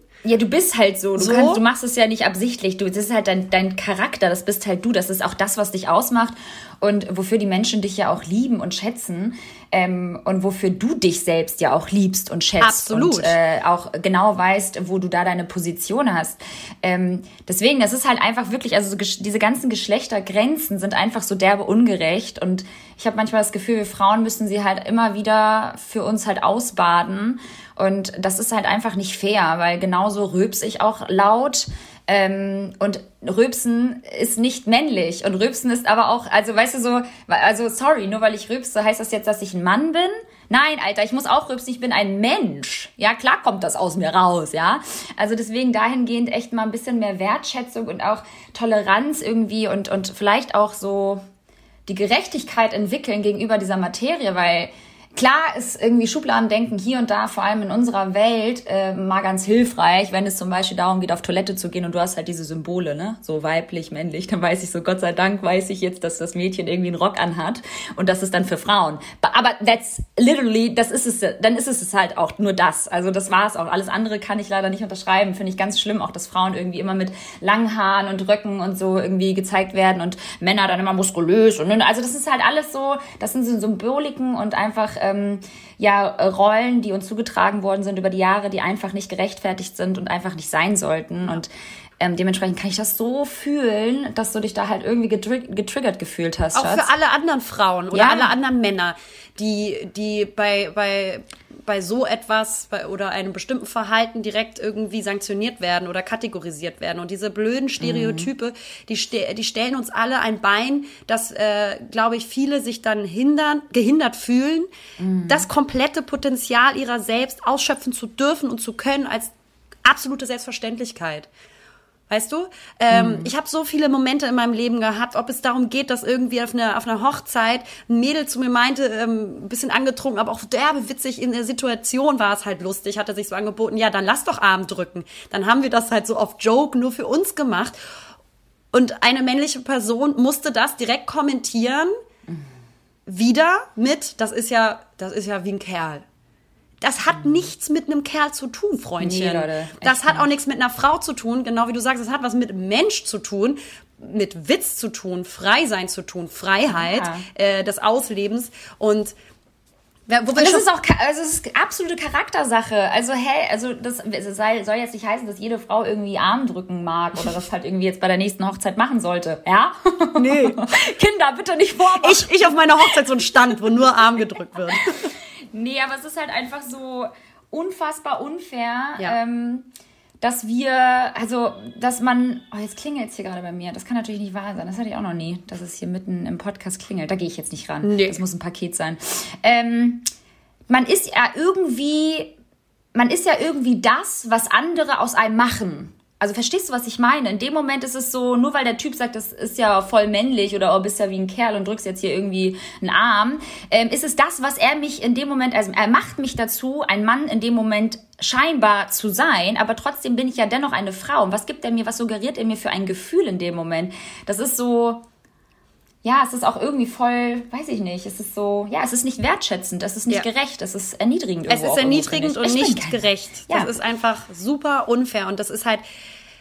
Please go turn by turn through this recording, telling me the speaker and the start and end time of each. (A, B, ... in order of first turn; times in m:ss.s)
0:00.2-0:51.2 A
0:01.2-0:01.6 B
0:12.6-0:13.4 B
0:51.9-1:36.9 A
1:36.5-1:54.7 B
1:37.9-1:38.3 A
1:47.8-1:48.3 A
1:55.0-1:55.5 A
1:55.3-1:59.3 B
1:59.8-2:01.3 B
2:02.1-2:17.8 B
2:02.9-2:03.3 A
2:18.7-2:21.9 B
2:23.0-2:26.0 B
2:26.8-2:39.1 B
2:29.0-2:30.3 A
2:36.7-2:37.2 A
2:40.1-2:40.7 B
2:40.3-2:53.0 A
2:50.2-2:50.6 B
2:52.0-2:55.0 B
2:54.7-2:59.7 A
3:00.2-3:10.1 A
3:07.8-3:08.2 B
3:10.7-3:12.3 A
3:12.9-3:35.0 A
3:36.0-3:43.7 A
3:41.5-3:45.8 B